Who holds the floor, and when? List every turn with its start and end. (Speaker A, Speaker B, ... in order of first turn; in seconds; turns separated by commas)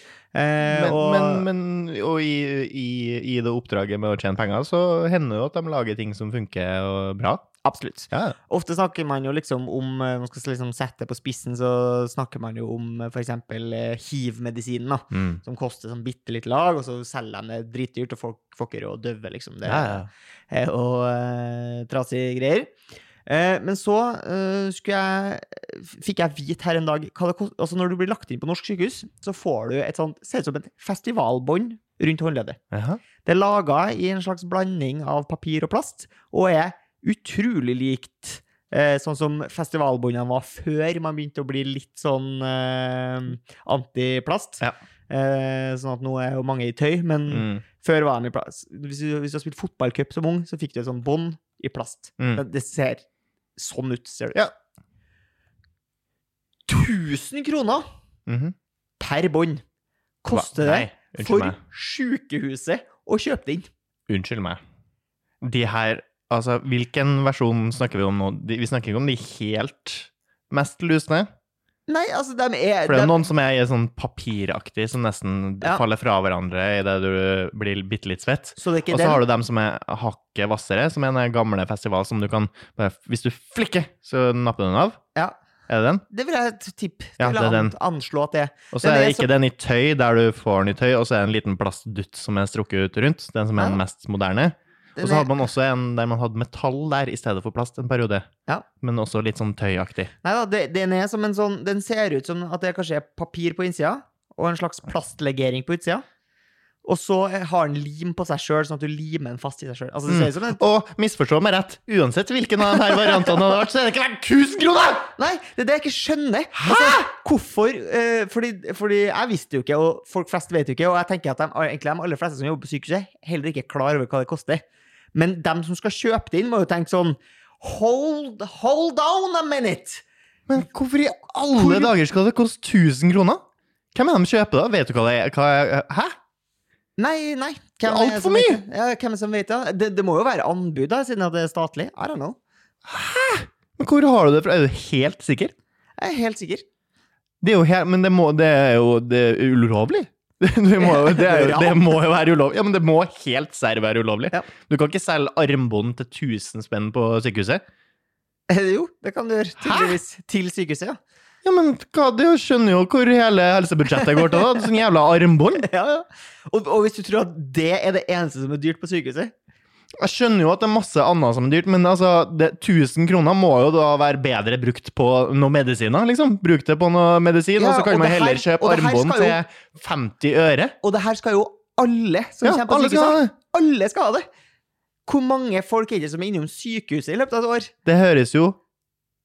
Speaker A: 0.3-1.5, Speaker B: 0.6-7.5, Speaker A: 7.6-22.7, Speaker B: 8.1-8.3, Speaker B: 15.1-15.4, Speaker B: 19.6-20.1, Speaker A: 23.2-32.6, Speaker B: 32.7-33.0, Speaker A: 33.2-53.0, Speaker B: 47.3-47.6, Speaker A: 53.5-54.4, Speaker A: 56.7-57.8, Speaker B: 58.3-58.5, Speaker A: 59.0-59.6, Speaker A: 60.2-63.7, Speaker B: 60.3-61.6, Speaker B: 64.1-64.6, Speaker B: 65.4-71.3, Speaker A: 71.9-73.2, Speaker B: 72.9-85.0, Speaker A: 78.6-79.2, Speaker B: 85.7-86.0, Speaker A: 86.1-89.3, Speaker B: 87.2-87.7, Speaker B: 88.7-98.3, Speaker A: 95.0-95.3, Speaker B: 98.8-100.1, Speaker A: 100.2-106.0, Speaker A: 106.8-110.6, Speaker B: 110.1-115.1, Speaker A: 115.2-130.0, Speaker B: 116.6-116.9, Speaker B: 130.5-133.4, Speaker A: 131.6-131.9, Speaker B: 133.9-136.1, Speaker A: 137.0-142.4, Speaker B: 137.8-138.6, Speaker B: 142.9-145.5, Speaker A: 146.0-146.6, Speaker B: 147.4-157.6, Speaker A: 150.8-151.8, Speaker A: 158.5-161.0, Speaker B: 159.6-160.0, Speaker B: 161.4-165.7, Speaker A: 164.2-164.7, Speaker A: 165.6-169.3, Speaker B: 170.0-180.8, Speaker A: 177.6-179.4, Speaker A: 180.8-184.2, Speaker B: 182.4-183.3, Speaker A: 185.1-187.7, Speaker B: 187.8-188.6